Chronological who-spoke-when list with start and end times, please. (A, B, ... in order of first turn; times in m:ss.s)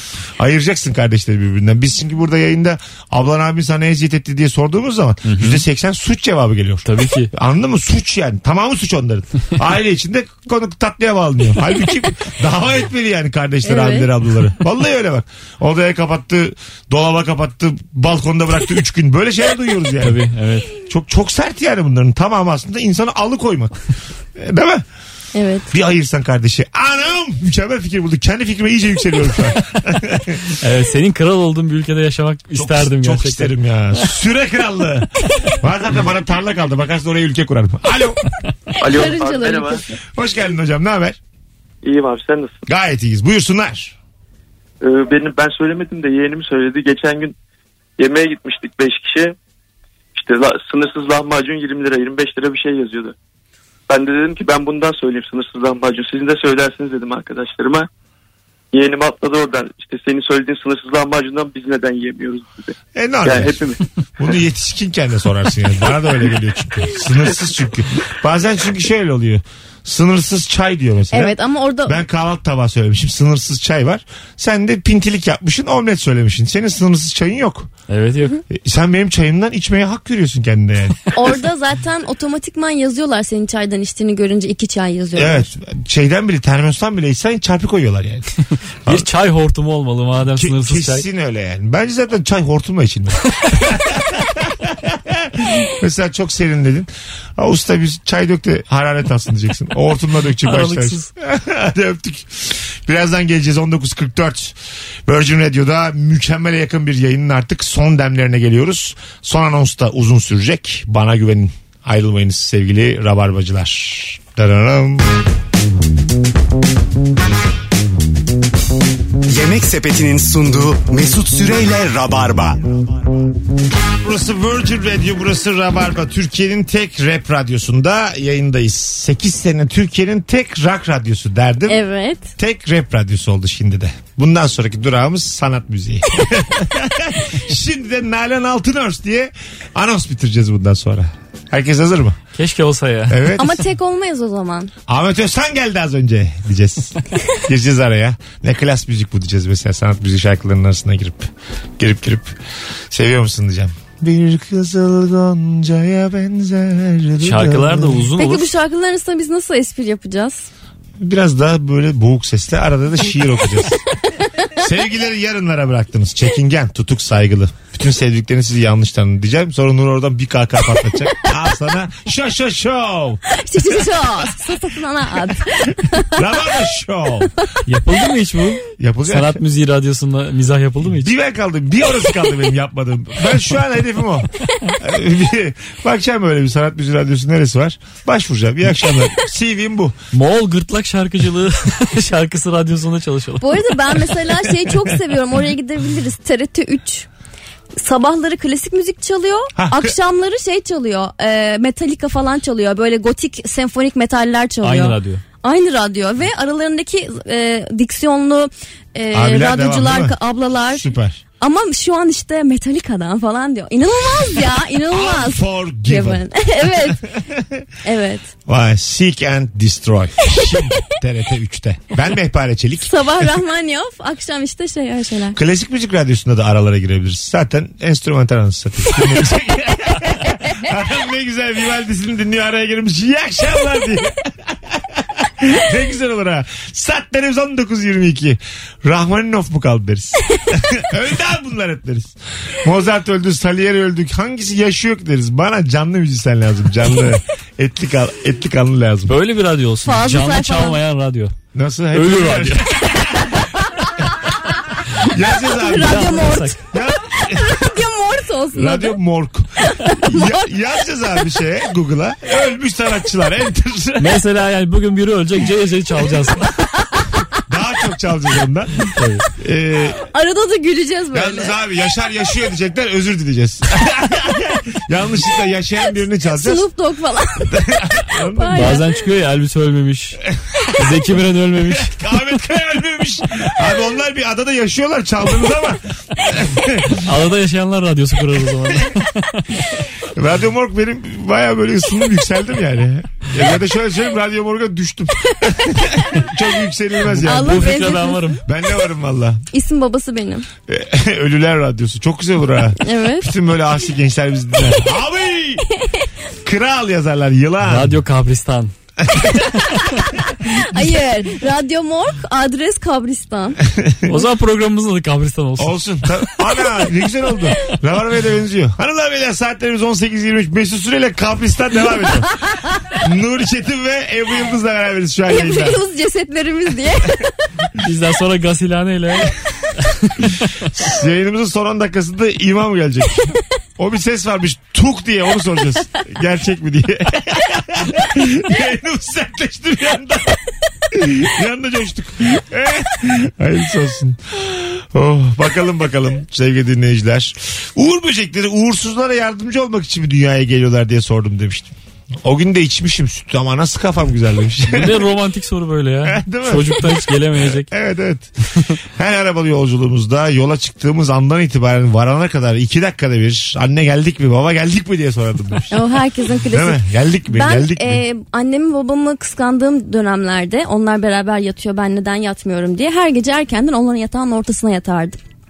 0:00.4-0:20.2 A
0:05.2-0:05.6 B
0:06.8-0:07.3 B
0:13.6-0:14.1 C
0:20.0-0:20.7 B
0:20.8-0:23.7 A
0:24.3-0:24.8 A
0:25.3-0:25.7 C
0:25.7-0:30.6 A
0:30.6-0:33.5 B
0:32.5-0:38.2 A
0:38.8-0:39.8 D
0:38.8-0:40.0 C
0:40.1-0:41.2 A
0:41.8-0:42.6 D
0:42.7-0:44.0 A
0:44.8-0:47.4 D
0:48.0-0:49.4 D
0:50.1-0:53.1 D
0:53.9-0:57.9 D
0:58.7-1:03.8 D
1:02.9-1:03.6 A
1:04.2-1:17.7 A
1:11.1-1:12.0 C
1:17.9-1:18.4 B
1:18.5-1:21.1 A
1:21.1-1:25.5 C
1:25.2-1:28.3 A
1:28.8-1:31.0 B
1:30.3-1:44.6 A
1:40.4-1:41.1 B
1:45.1-1:55.1 A
1:59.3-2:02.6 E
2:04.0-2:11.8 A
2:11.7-2:12.3 C
2:12.4-2:22.2 A
2:22.3-2:23.3 B
2:23.1-2:23.6 A
2:23.4-2:24.7 C
2:24.9-2:32.3 A
2:32.9-2:38.1 A
2:37.2-2:38.5 B
2:38.2-2:40.5 C
2:41.0-2:43.8 A
2:44.5-2:53.2 A
2:53.3-2:56.2 C
2:56.1-2:57.3 A
2:57.6-3:01.1 B
2:58.8-2:59.4 A
3:00.8-3:10.0 A
3:10.1-3:14.0 B
3:13.4-3:17.1 C
3:17.8-3:30.8 C
3:19.6-3:19.9 A
3:24.6-3:25.2 B
3:29.1-3:30.2 A
3:30.7-3:31.2 A
3:31.4-3:37.0 C
3:34.9-3:37.6 A
3:37.8-3:38.3 C
3:38.5-3:43.3 A
3:42.8-3:45.4 C
3:45.3-4:09.2 A
4:09.1-4:11.3 B
4:09.8-4:10.8 C
4:11.5-4:13.4 A
4:11.9-4:13.0 B
4:15.0-4:17.6 A
4:15.5-4:16.6 C
4:15.8-4:16.6 B
4:17.1-4:19.0 C
4:18.5-4:24.2 A
4:19.6-4:20.4 C
4:24.0-4:26.6 B
4:27.5-4:28.8 A
4:28.9-4:29.2 B
4:29.4-4:30.0 A
4:30.0-4:31.5 C
4:31.1-4:36.6 A
4:36.2-4:38.9 C
4:37.5-4:38.7 A
4:38.5-4:40.2 B
4:40.4-4:40.8 A
4:40.7-4:42.0 B
4:41.7-4:47.0 A
4:47.0-4:49.4 B
4:50.1-4:57.9 A
4:57.1-4:58.4 B
4:57.2-4:58.4 C
4:58.4-4:59.4 A
4:59.5-5:00.5 C
5:00.7-5:05.7 A
5:02.8-5:03.3 C
5:06.4-5:08.0 A
5:07.6-5:08.7 B
5:09.0-5:09.4 A
5:09.4-5:09.8 B
5:10.3-5:13.6 C
5:13.7-5:14.2 A
5:14.1-5:15.8 B
5:15.6-5:25.8 A
5:25.3-5:27.3 C
5:27.8-5:30.5 B
5:30.7-5:40.4 A
5:40.9-5:55.0 A
5:54.7-5:57.7 B
5:56.0-5:58.3 A
5:59.0-6:05.8 A
6:05.7-6:15.2 C
6:06.5-6:08.0 A